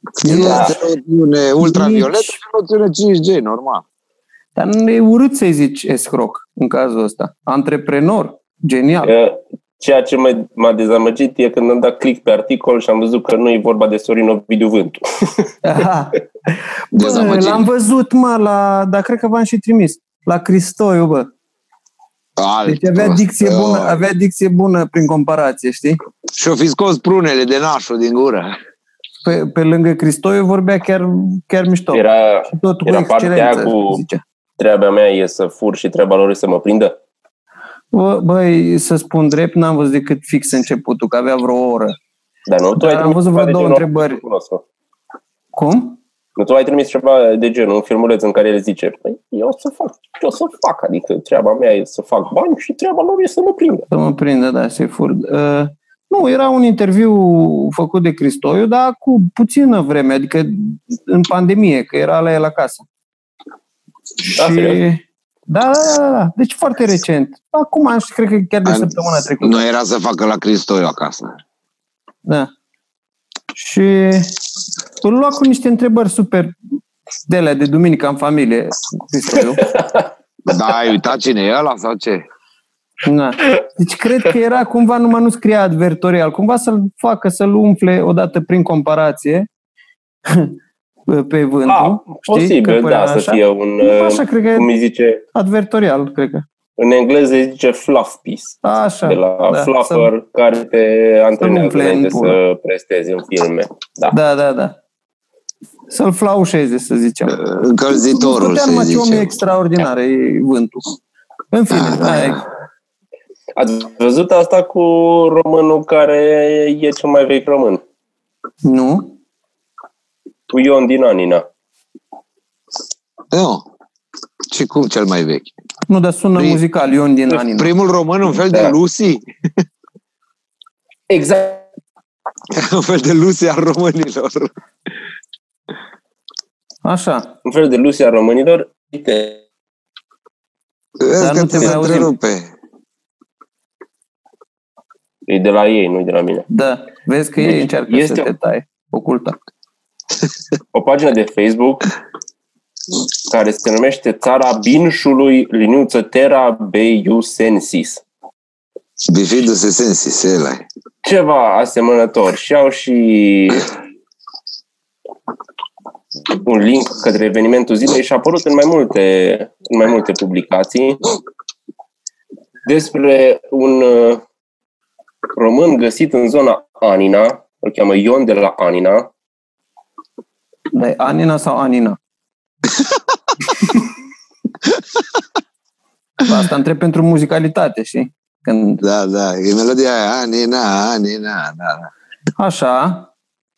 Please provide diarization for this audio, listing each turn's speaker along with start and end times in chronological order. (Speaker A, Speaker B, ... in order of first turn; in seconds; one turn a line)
Speaker A: 0.2-3.8
Speaker B: 0.2-0.7
Speaker C: 0.3-0.8
Speaker B: 1.6-2.4
Speaker B: 4.6-9.1
Speaker C: 9.0-15.5
Speaker B: 15.6-21.3
Speaker A: 16.9-17.6
Speaker A: 22.4-24.0
Speaker B: 22.7-26.0
Speaker A: 26.3-28.6
Speaker B: 29.2-34.2
Speaker C: 31.9-34.0
Speaker C: 34.6-37.0
Speaker B: 37.9-42.0
Speaker C: 42.5-44.6
Speaker B: 42.8-44.2
Speaker B: 45.6-46.0
Speaker C: 46.4-53.9
Speaker B: 53.9-62.8
Speaker B: 64.2-69.6
Speaker C: 64.4-64.8
Speaker A: 68.7-71.4
Speaker B: 73.5-74.3
Speaker B: 75.0-76.5
Speaker B: 77.3-79.6
Speaker C: 79.6-80.1
Speaker A: 80.5-82.2
Speaker B: 83.0-89.5
Speaker B: 90.3-90.5
Speaker B: 91.1-94.7
Speaker C: 91.7-95.2
Speaker B: 95.3-96.4
Speaker C: 96.8-104.2
Speaker B: 98.6-100.1
Speaker B: 101.4-102.4
Speaker B: 104.1-104.7
Speaker B: 105.9-107.4
Speaker A: 107.3-109.3
Speaker B: 108.0-110.9
Speaker B: 111.5-112.4
Speaker A: 111.7-112.4
Speaker C: 113.6-117.8
Speaker B: 118.7-119.1
Speaker C: 120.5-121.5
Speaker A: 123.3-123.6
Speaker A: 124.5-125.5
Speaker B: 125.9-127.7
Speaker A: 127.5-129.2
Speaker C: 128.4-128.7
Speaker C: 131.1-131.7
Speaker A: 132.5-134.5
Speaker B: 136.8-137.3
Speaker C: 137.4-139.4
Speaker A: 141.0-142.5
Speaker B: 141.2-142.1
Speaker C: 145.3-146.5
Speaker B: 146.5-149.4
Speaker C: 147.4-148.3
Speaker C: 150.7-151.9
Speaker C: 153.3-158.0
Speaker A: 159.1-160.7
Speaker C: 161.0-163.7
Speaker C: 166.3-171.2
Speaker C: 172.7-174.2
Speaker C: 175.3-179.1
Speaker B: 180.7-182.0
Speaker B: 186.2-188.8
Speaker A: 188.8-191.9
Speaker B: 192.4-193.1